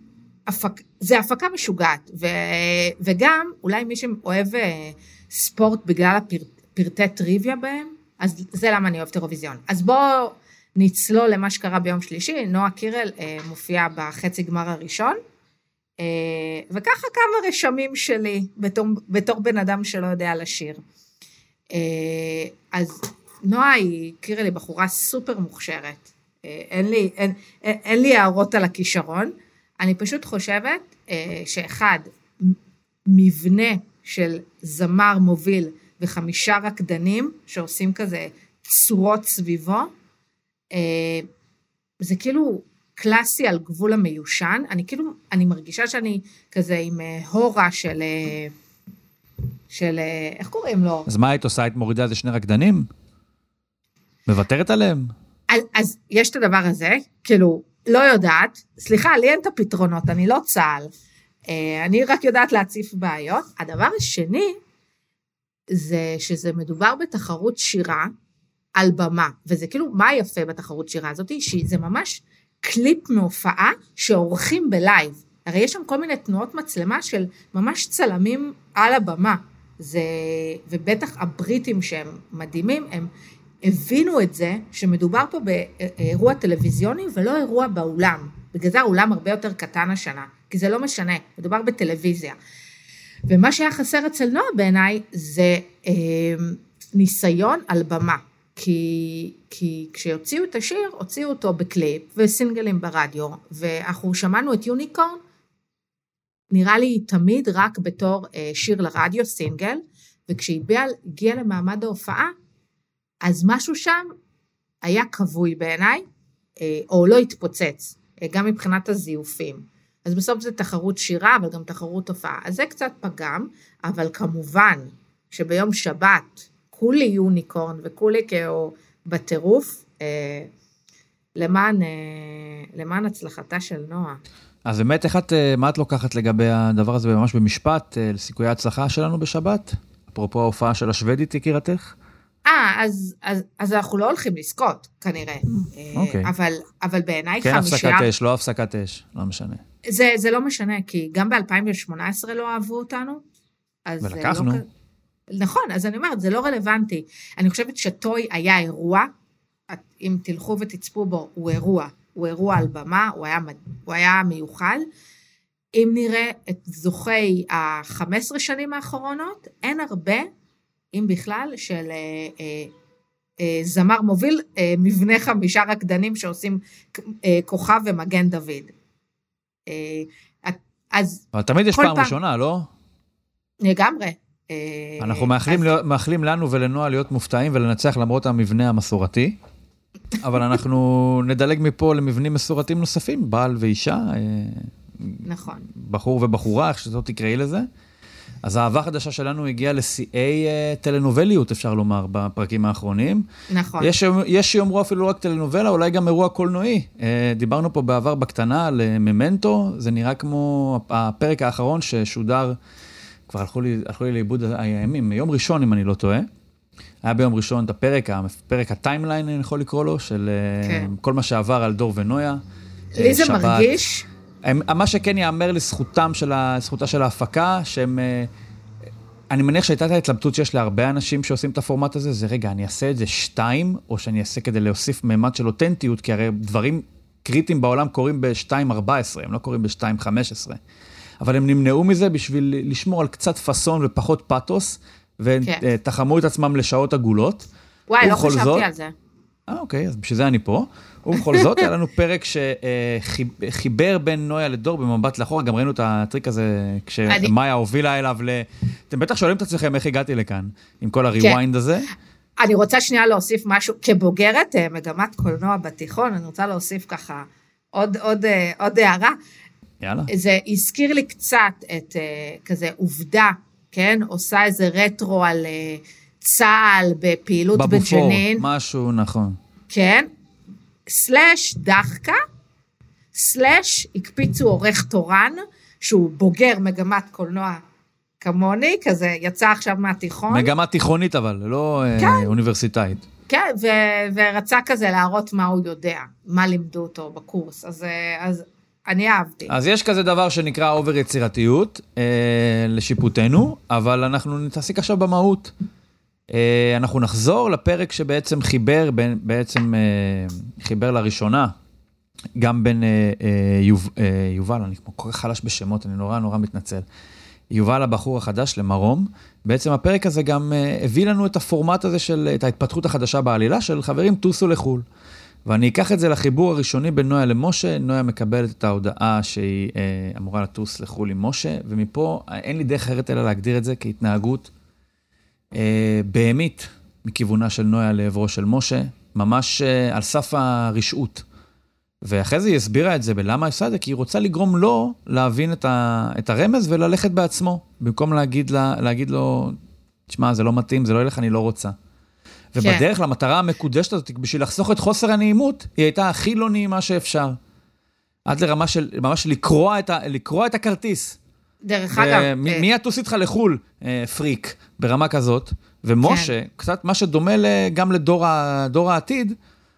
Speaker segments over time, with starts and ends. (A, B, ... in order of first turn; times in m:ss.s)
0:00.5-0:15.2 A
0:16.0-0:20.8 A
0:21.7-0:39.9 A
0:40.7-0:41.3 A
0:42.0-0:48.5 A
0:49.7-0:51.1 A
0:51.1-0:52.9 B
0:54.3-0:55.1 B
0:55.5-1:00.9 A
1:01.5-1:04.6 A
1:05.7-1:08.1 A
1:08.8-1:23.1 A
1:23.6-1:32.4 A
1:33.3-1:45.2 A
1:46.5-1:52.3 A
1:53.2-1:54.1 A
1:54.8-1:56.0 A
1:56.6-2:10.5 A
2:11.4-2:14.2 A
2:14.6-2:21.9 B
2:22.4-2:28.1 A
2:25.9-2:26.3 B
2:27.4-2:29.6 B
2:29.8-2:33.2 A
2:33.9-2:34.6 A
2:34.0-2:34.6 B
2:35.3-2:39.1 A
2:39.7-2:44.9 A
2:45.7-2:50.3 A
2:50.9-2:52.7 A
2:53.4-2:58.7 A
2:59.7-3:02.1 A
3:01.3-3:02.7 B
3:03.6-3:05.7 A
3:05.0-3:09.4 B
3:10.2-3:17.6 B
3:15.2-3:15.7 A
3:18.4-3:23.2 B
3:23.5-3:23.9 A
3:23.8-3:32.5 B
3:33.3-3:36.2 B
3:37.0-3:42.4 B
3:40.6-3:40.9 A
3:42.9-3:44.1 A
3:43.0-3:43.7 B
3:44.4-3:48.3 B
3:49.3-4:00.6 B
4:01.2-4:07.4 B
4:07.9-4:08.9 A
4:08.0-4:08.6 B
4:09.5-4:21.9 B
4:11.2-4:11.6 A
4:22.4-4:29.2 A
4:29.8-4:30.1 B
4:30.1-4:38.4 A
4:37.5-4:39.4 B
4:39.7-4:40.1 A
4:40.9-4:42.2 A
4:43.1-4:47.6 A
4:48.2-4:50.5 A
4:50.3-4:53.0 B
4:52.0-4:52.3 A
4:53.3-4:59.5 A
4:59.5-5:05.5 B
5:06.3-5:11.5 B
5:12.4-5:16.8 B
5:17.5-5:24.8 B
5:25.4-5:34.5 B
5:35.5-5:41.2 B
5:42.0-5:49.6 B
5:50.1-5:51.7 B
5:52.5-5:57.4 B
5:58.3-6:01.2 B
6:01.6-6:02.6 A
6:01.9-6:09.4 B
6:06.0-6:06.3 A